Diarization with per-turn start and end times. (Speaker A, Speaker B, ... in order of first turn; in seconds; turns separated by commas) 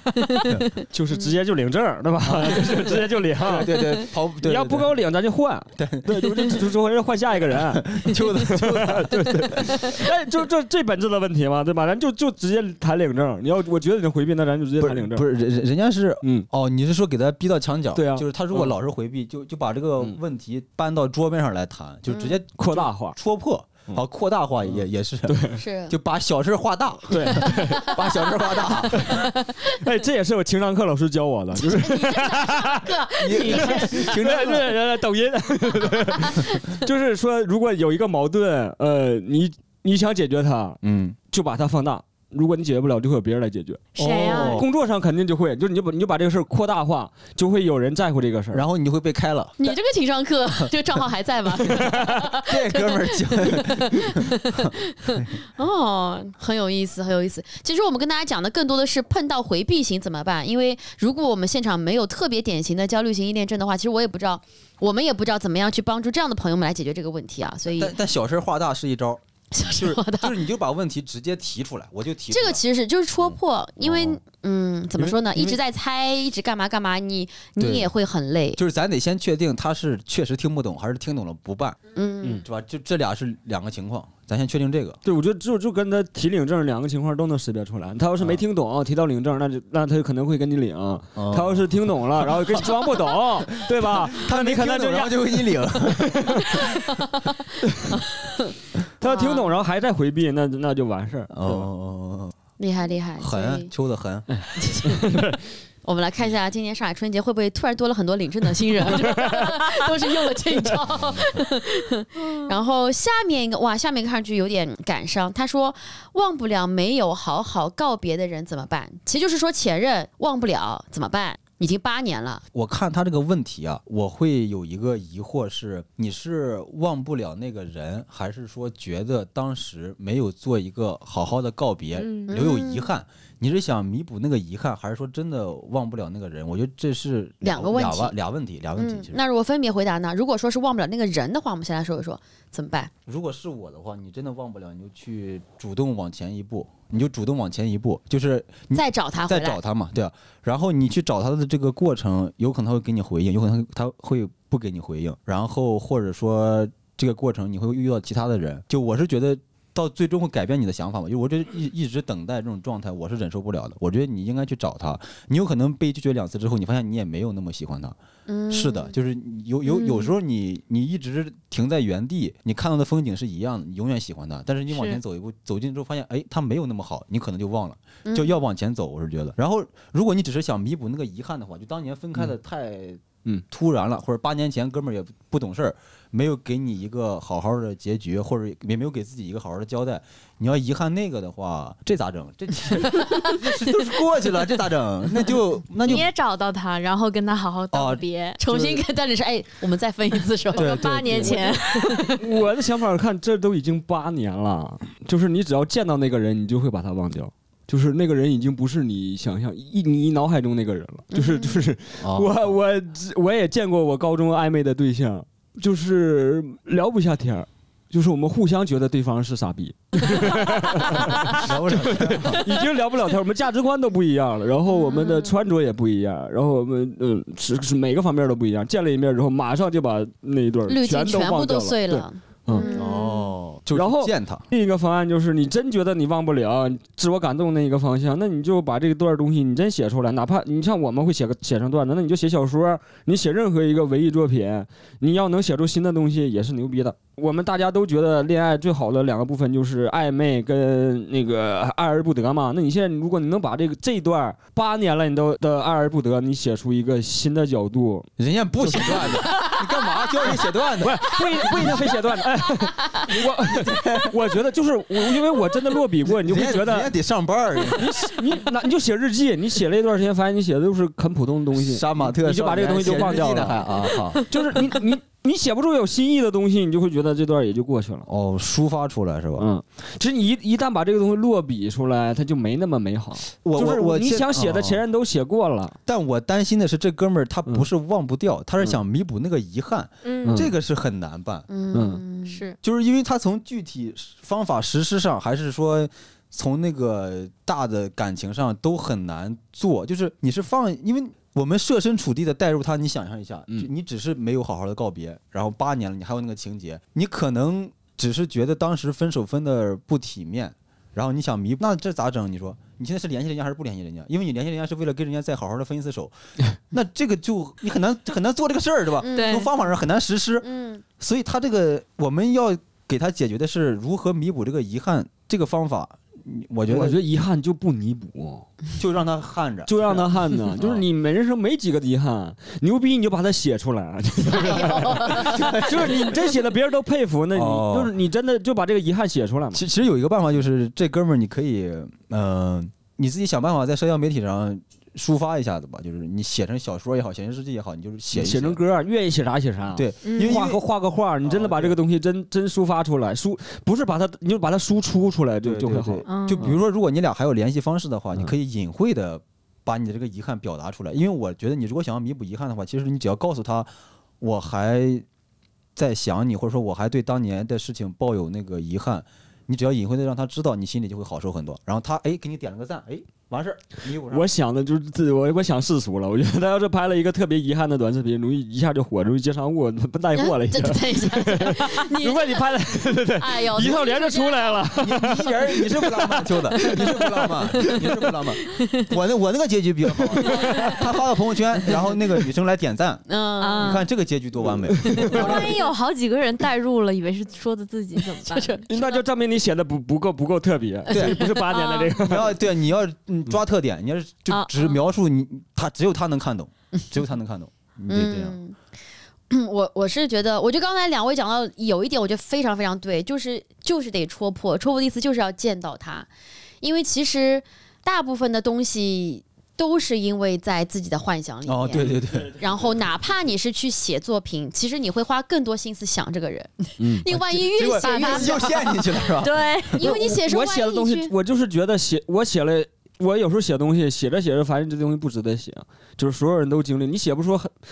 Speaker A: 0.1-1.3, Speaker B: 0.4-0.7, Speaker C: 0.9-15.2, Speaker B: 2.2-4.9, Speaker B: 5.8-6.7, Speaker B: 7.5-10.0, Speaker B: 14.8-29.2, Speaker C: 16.2-16.5, Speaker C: 17.9-18.7, Speaker A: 22.1-22.4, Speaker C: 22.6-23.2, Speaker C: 24.7-25.6, Speaker A: 25.5-25.9, Speaker C: 27.1-28.0, Speaker A: 27.7-28.1, Speaker C: 28.9-32.9, Speaker A: 28.9-29.8, Speaker A: 31.6-34.2, Speaker B: 33.2-34.7, Speaker C: 33.4-40.8, Speaker B: 40.8-41.2, Speaker C: 41.3-48.6, Speaker D: 44.0-44.6, Speaker B: 44.0-44.6, Speaker B: 48.5-49.6, Speaker A: 49.6-67.9, Speaker B: 51.7-55.3, Speaker B: 67.7-72.6, Speaker A: 69.5-70.3, Speaker A: 72.3-78.6, Speaker B: 73.2-74.2, Speaker B: 75.0-75.6, Speaker B: 77.6-77.9, Speaker B: 78.5-85.0, Speaker A: 81.9-82.4, Speaker C: 85.0-96.6, Speaker B: 91.2-92.8, Speaker B: 93.6-96.8, Speaker A: 96.5-98.5, Speaker C: 99.0-101.7, Speaker A: 99.0-99.5, Speaker B: 101.3-102.3, Speaker A: 102.6-103.7, Speaker B: 103.2-104.3, Speaker C: 104.3-105.4, Speaker A: 104.5-105.0, Speaker A: 105.8-122.4, Speaker C: 109.2-109.5, Speaker B: 110.9-111.4, Speaker D: 112.2-112.5, Speaker B: 122.5-139.2, Speaker D: 131.9-132.3, Speaker A: 132.3-132.9, Speaker A: 137.4-138.2, Speaker A: 138.8-142.9, Speaker B: 143.1-167.9, Speaker A: 148.7-149.6, Speaker A: 168.3-168.9, Speaker B: 168.5-196.1, Speaker D: 169.7-170.1, Speaker D: 174.7-175.0, Speaker A: 178.1-178.4, Speaker A: 192.9-193.3, Speaker D: 195.8-198.4, Speaker B: 197.7-198.8, Speaker A: 198.4-202.2, Speaker D: 200.5-202.1, Speaker B: 200.5-201.4, Speaker C: 202.2-232.6, Speaker A: 211.1-211.7, Speaker B: 212.0-212.6, Speaker B: 221.3-222.5, Speaker A: 224.7-225.3, Speaker D: 224.9-225.2, Speaker A: 230.7-233.3, Speaker D: 232.5-232.8, Speaker B: 232.6-234.4, Speaker C: 233.7-258.1, Speaker B: 258.2-262.0, Speaker C: 258.6-259.3, Speaker C: 260.8-266.9, Speaker B: 263.1-264.2, Speaker B: 266.1-268.0, Speaker C: 267.7-278.1, Speaker B: 271.5-274.7, Speaker B: 278.1-279.5, Speaker C: 279.4-285.8, Speaker B: 283.4-284.8, Speaker B: 285.9-291.5, Speaker D: 290.0-290.4, Speaker C: 290.2-290.5, Speaker A: 291.5-292.4, Speaker C: 291.7-292.0, Speaker D: 292.3-292.6, Speaker B: 292.6-316.1, Speaker B: 316.7-320.5, Speaker A: 319.0-319.5, Speaker D: 319.1-319.5, Speaker A: 320.4-320.8, Speaker B: 321.0-327.0, Speaker C: 326.7-328.5, Speaker B: 328.8-330.8, Speaker C: 329.7-339.6, Speaker A: 334.3-335.4, Speaker B: 334.5-336.3, Speaker B: 337.3-337.9, Speaker B: 339.5-348.6, Speaker C: 348.1-356.6, Speaker B: 349.7-350.6, Speaker D: 350.0-350.4, Speaker B: 351.2-351.8, Speaker B: 355.4-363.7, Speaker D: 356.1-356.5, Speaker B: 364.2-365.0, Speaker B: 365.8-374.3, Speaker C: 374.1-387.8, Speaker A: 380.1-384.7, Speaker B: 384.8-393.0, Speaker A: 388.5-388.9, Speaker C: 389.9-390.7, Speaker A: 390.3-390.7, Speaker A: 393.1-393.8, Speaker D: 393.4-393.9, Speaker B: 393.6-395.6, Speaker C: 394.7-395.5, Speaker D: 395.0-398.6, Speaker A: 398.2-399.0, Speaker C: 398.7-402.4, Speaker B: 400.9-401.3, Speaker A: 400.9-401.4, Speaker D: 401.4-402.0, Speaker B: 402.0-408.4, Speaker D: 404.3-404.8, Speaker A: 407.9-408.6, Speaker A: 409.3-416.1, Speaker A: 416.6-429.0, Speaker B: 421.4-422.3, Speaker C: 422.1-422.9, Speaker C: 426.8-427.1, Speaker B: 427.5-429.7, Speaker D: 427.6-429.9, Speaker A: 429.8-431.1, Speaker C: 429.8-437.5